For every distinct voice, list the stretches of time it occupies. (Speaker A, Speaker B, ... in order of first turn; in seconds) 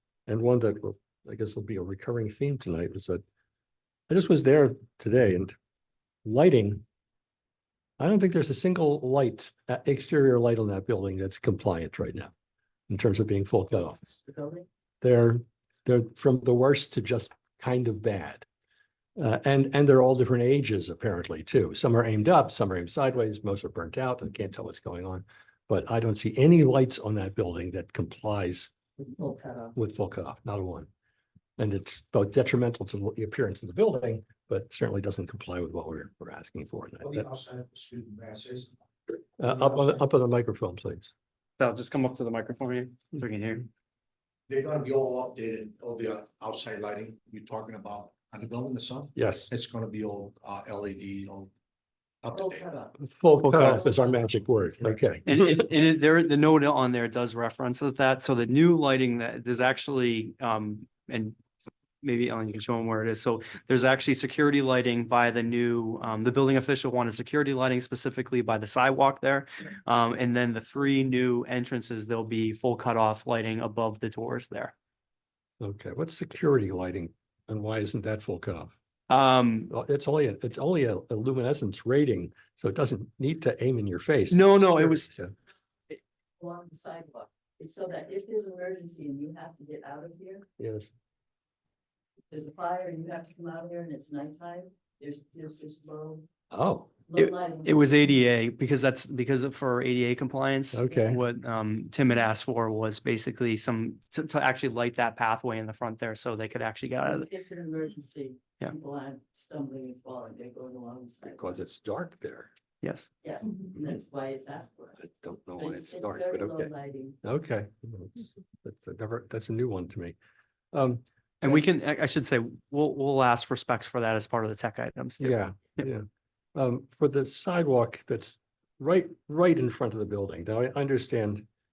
Speaker A: 0.3-3.2, 4.1-5.5, 6.2-6.8, 8.0-12.3, 12.9-14.0, 15.0-18.4, 19.1-28.7, 29.7-30.9, 31.6-37.2, 39.4-41.1, 49.1-49.5, 53.0-55.6, 75.6-78.7, 79.7-85.3, 90.6-90.9, 96.5-96.9, 100.7-101.2, 111.2-112.5, 115.0-120.1, 120.7-121.6, 125.2-131.4
Speaker B: 13.8-14.7, 29.0-29.7, 52.3-53.0, 53.6-54.9, 86.4-90.5, 92.3-96.2, 97.1-97.8, 107.0-111.6, 113.2-115.0, 115.6-117.2
Speaker C: 37.0-38.7, 39.5-40.0, 44.5-51.5, 52.2-52.7
Speaker D: 41.6-43.6, 53.4-53.8, 55.2-61.4, 62.0-74.7, 79.1-79.7, 84.3-85.1, 97.1-107.3, 112.8-113.1, 121.4-125.8